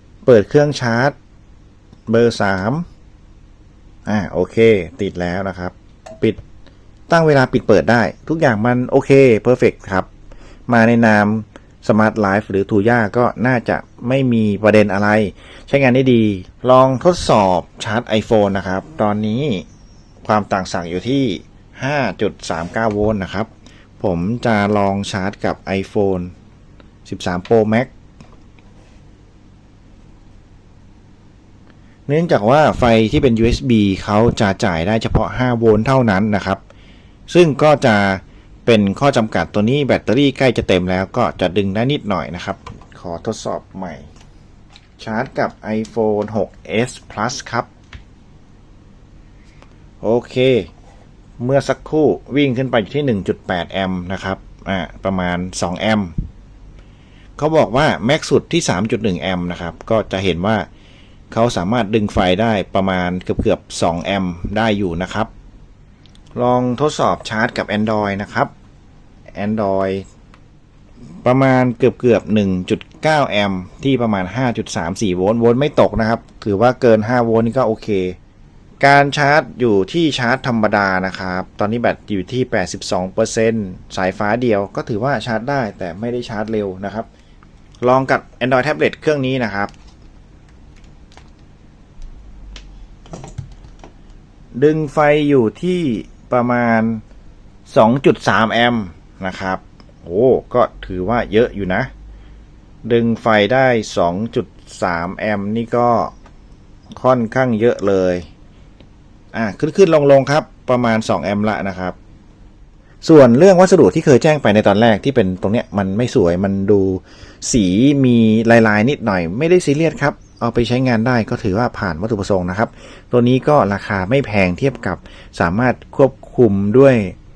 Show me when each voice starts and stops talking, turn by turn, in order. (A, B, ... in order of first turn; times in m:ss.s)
0:00.2-0:01.1 A
0:02.1-0:02.8 A
0:04.0-0:06.4 A
0:07.1-0:10.1 A
0:10.7-0:19.6 A
0:20.2-0:23.5 A
0:24.0-0:26.3 A
0:27.0-0:27.9 A
0:32.1-0:36.6 A
0:37.3-0:44.1 A
0:45.0-0:47.7 A
0:50.0-0:50.7 A
0:51.4-0:56.1 A
0:57.4-1:00.7 A
1:01.3-1:05.3 A
1:06.4-1:08.5 A
1:09.3-1:10.0 A
1:11.2-1:18.2 A
1:18.8-1:27.1 A
1:27.8-1:29.7 A
1:34.5-1:37.0 A
1:37.7-1:41.9 A
1:42.8-1:46.1 A
1:46.9-1:48.3 A
1:49.3-1:52.0 A
1:53.0-2:07.1 A